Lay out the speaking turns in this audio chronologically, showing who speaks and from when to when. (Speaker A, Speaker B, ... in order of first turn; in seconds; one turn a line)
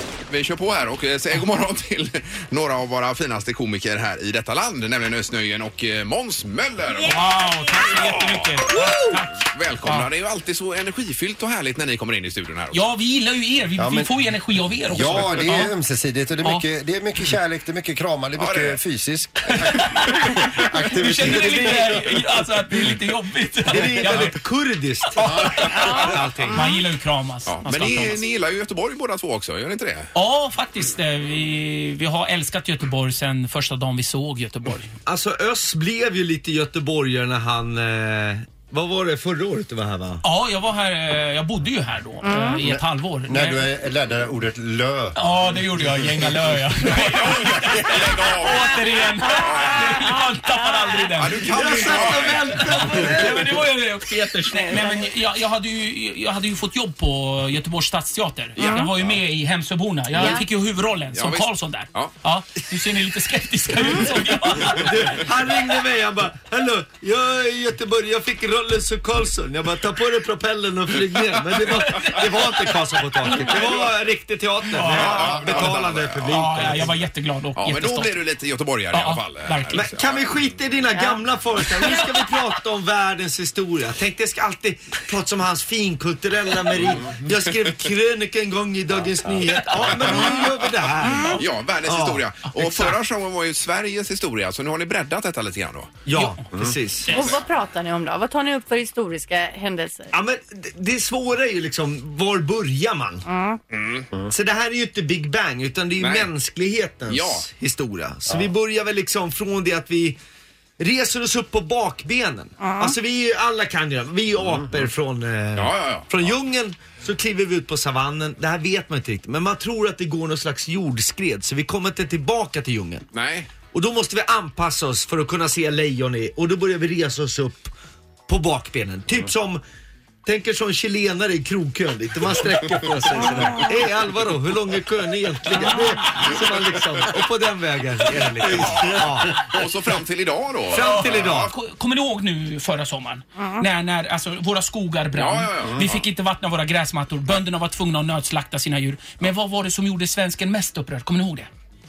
Speaker A: 0.3-7.2
Speaker B: 6.9-7.9
Speaker C: 7.1-10.1
Speaker A: 7.8-8.8
Speaker A: 9.4-12.8
Speaker C: 12.7-15.7
Speaker D: 13.8-14.1
Speaker D: 14.9-22.1
Speaker A: 18.4-18.8
Speaker C: 19.6-24.4
Speaker E: 21.2-21.7
Speaker E: 23.7-26.7
Speaker C: 25.1-28.2
Speaker D: 25.3-25.7
Speaker B: 25.8-26.6
Speaker A: 27.5-30.1
Speaker C: 30.1-34.9
Speaker E: 35.0-40.2
Speaker C: 40.2-43.6
Speaker B: 42.3-42.6
Speaker D: 42.6-46.5
Speaker C: 45.1-65.2
Speaker A: 46.8-50.0
Speaker A: 51.2-52.9
Speaker E: 51.5-53.7
Speaker A: 58.6-59.1
Speaker B: 58.6-58.9
Speaker A: 61.1-62.1
Speaker E: 64.6-77.0
Speaker C: 71.7-72.4
Speaker C: 73.3-73.8
Speaker C: 74.7-75.4
Speaker A: 74.8-76.8
Speaker D: 75.2-75.6
Speaker C: 76.3-78.2
Speaker A: 77.5-80.3
Speaker C: 78.9-79.8
Speaker E: 79.7-92.2
Speaker C: 89.6-90.4
Speaker A: 89.9-90.7
Speaker A: 91.3-96.0
Speaker C: 92.5-92.9
Speaker E: 96.0-97.1
Speaker C: 96.1-96.4
Speaker A: 96.5-97.4
Speaker B: 97.1-100.1
Speaker E: 100.1-103.2
Speaker B: 103.3-103.6
Speaker A: 103.7-104.1
Speaker E: 104.3-110.2
Speaker A: 106.0-106.3
Speaker A: 107.1-107.5
Speaker E: 110.8-123.0
Speaker A: 115.5-116.3
Speaker A: 123.1-123.5
Speaker E: 123.7-127.7
Speaker E: 128.3-129.6
Speaker E: 130.2-139.4
Speaker A: 138.4-141.5
Speaker E: 140.7-141.5
Speaker C: 140.8-151.5
Speaker A: 145.1-146.0